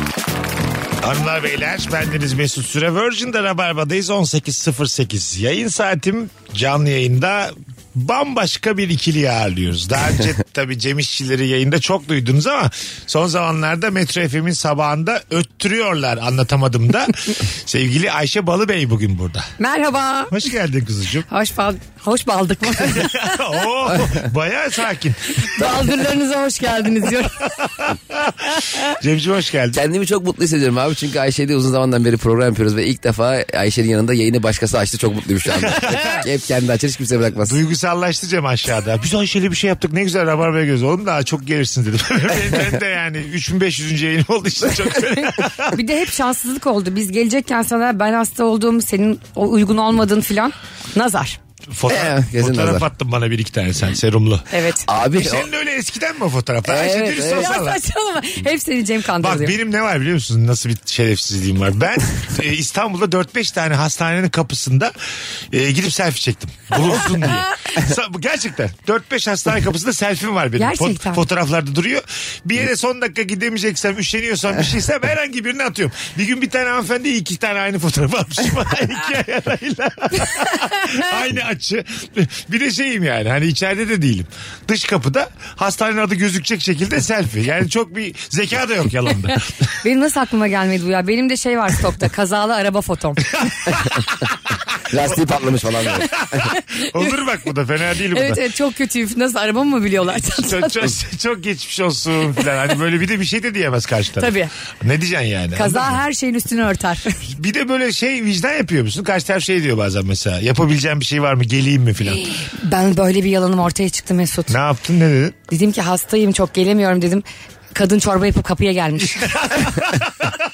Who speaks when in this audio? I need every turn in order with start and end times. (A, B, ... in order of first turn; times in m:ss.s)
0:01.0-0:19.5 A
0:19.6-0:20.4 B
0:20.3-0:21.3 A
0:21.3-0:23.4 B
0:22.8-0:25.7 A
0:25.4-0:27.7 B
0:27.8-0:29.8 A
0:28.6-0:28.8 B
0:29.7-0:37.6 C
0:35.6-0:36.2 A
0:37.4-0:45.8 A
0:45.7-0:51.4 B
0:51.7-0:54.5 A
0:51.9-0:52.8 C
0:54.5-0:54.8 B
0:54.9-0:55.5 C
0:55.0-0:57.8 A
0:56.7-0:57.6 C
0:57.4-0:59.6 B
0:59.2-1:04.9 A
1:05.5-1:29.5 A
1:06.9-1:07.7 B
1:10.6-1:11.2 B
1:29.8-1:33.3 B
1:33.3-1:34.0 A
1:33.7-1:34.0 C
1:34.9-1:36.5 C
1:35.9-1:38.4 A
1:38.1-1:40.9 B
1:40.1-1:46.0 A
1:44.2-1:44.5 B
1:45.6-1:47.2 B
1:47.3-1:52.4 A
1:52.3-1:54.6 B
1:54.5-1:55.4 A
1:55.5-1:59.6 B
1:59.0-2:00.4 A